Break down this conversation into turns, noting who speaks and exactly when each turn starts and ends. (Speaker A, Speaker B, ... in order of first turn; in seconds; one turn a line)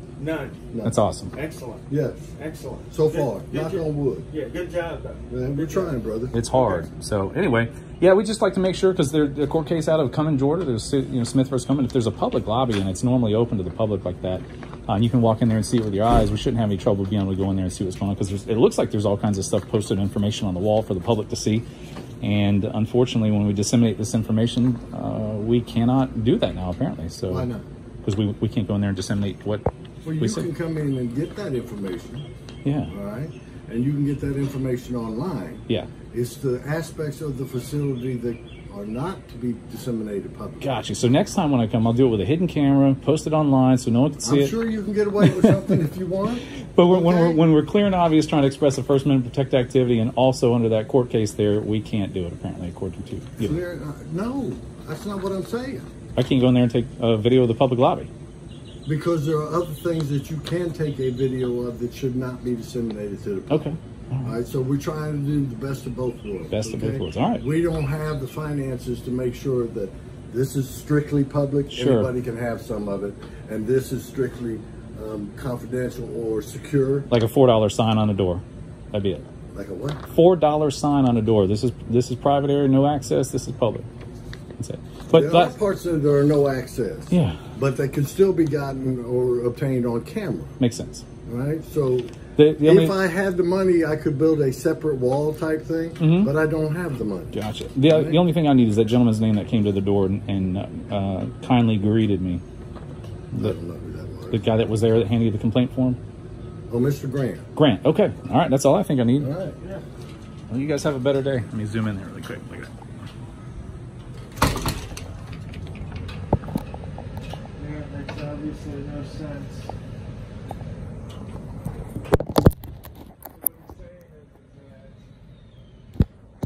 Speaker A: 0.2-0.7
Speaker B: 0.8-1.3
Speaker A: 1.3-6.9
Speaker C: 1.9-2.3
Speaker C: 2.9-4.3
Speaker C: 5.3-6.3
Speaker B: 6.3-21.6
Speaker B: 22.2-27.5
Speaker C: 27.3-27.7
Speaker B: 28.0-29.6
Speaker C: 30.0-32.3
Speaker B: 30.2-30.5
Speaker B: 32.6-32.9
Speaker C: 32.9-40.7
Speaker B: 40.6-44.6
Speaker C: 44.2-47.4
Speaker B: 45.2-45.8
Speaker B: 46.7-53.6
Speaker C: 53.4-55.9
Speaker B: 56.2-58.1
Speaker C: 58.9-77.1
Speaker B: 63.5-64.3
Speaker B: 66.5-67.4
Speaker B: 71.7-72.1
Speaker B: 77.1-79.3
Speaker C: 79.5-80.0
Speaker B: 80.1-83.9
Speaker B: 84.6-85.5
Speaker C: 85.1-90.5
Speaker B: 87.1-87.4
Speaker B: 90.6-91.0
Speaker C: 91.3-97.3
Speaker B: 92.4-93.0
Speaker B: 96.0-96.3
Speaker B: 97.3-102.4
Speaker C: 97.9-98.2
Speaker C: 103.4-104.4
Speaker B: 104.3-106.0
Speaker C: 106.7-107.5
Speaker B: 107.6-109.3
Speaker C: 109.2-109.6
Speaker B: 110.5-112.7
Speaker A: 117.6-119.7
Speaker A: 123.3-125.1